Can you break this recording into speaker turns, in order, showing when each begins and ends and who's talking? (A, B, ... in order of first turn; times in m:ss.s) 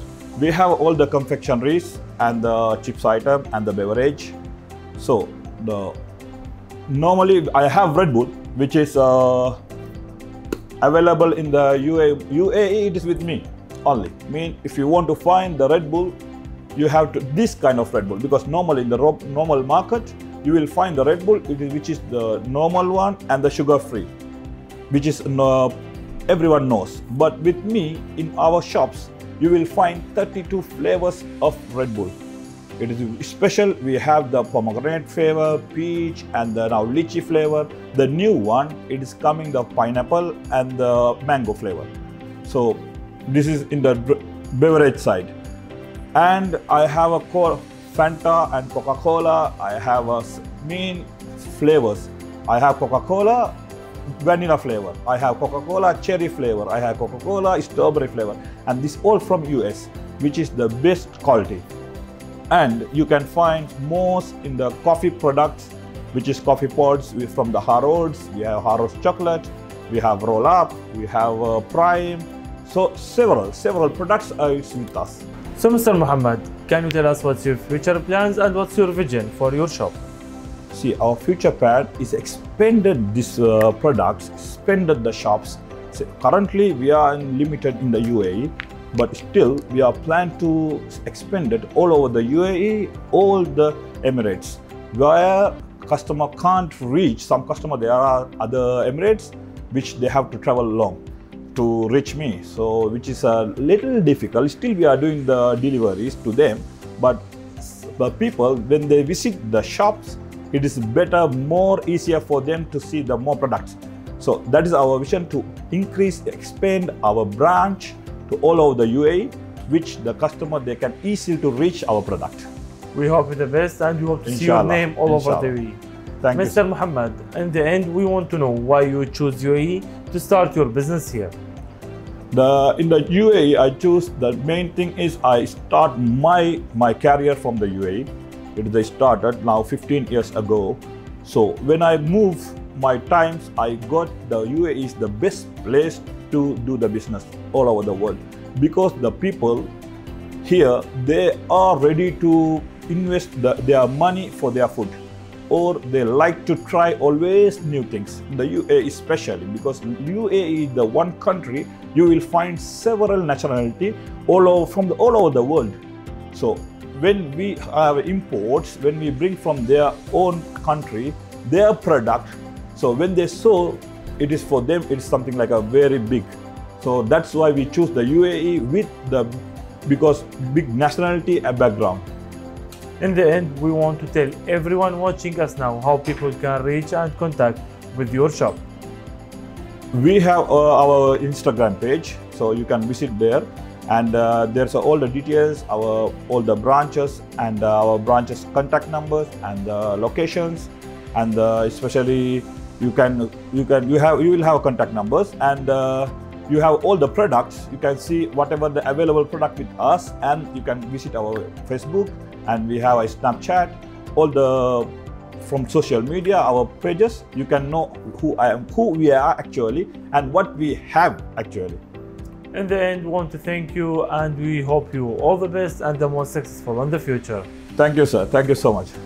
0:00.4-0:04.4 A
0:05.0-0:06.0 A
0:06.9-0:09.6 A
0:10.8-0:16.2 A
0:16.8-0:24.1 A
0:24.9-0:25.8 A
0:26.3-0:32.2 A
0:32.8-0:41.9 A
0:42.4-0:45.3 A
0:46.1-0:53.5 A
0:54.2-1:01.6 A
1:02.5-1:15.2 A
1:15.6-1:20.0 B
1:20.7-1:41.0 A
1:41.5-2:02.5 A
2:02.9-2:05.8 B
2:04.3-2:05.5 A
2:06.2-2:06.6 A
2:06.3-2:11.3 B
2:12.3-2:29.7 A
2:30.4-2:35.0 A
2:35.5-2:45.8 A
2:46.3-2:56.3 A
2:56.8-3:02.1 A
3:03.0-3:08.6 B
3:09.9-3:34.9 A
3:35.4-3:41.8 A
3:42.5-3:47.5 B
3:47.8-3:48.9 A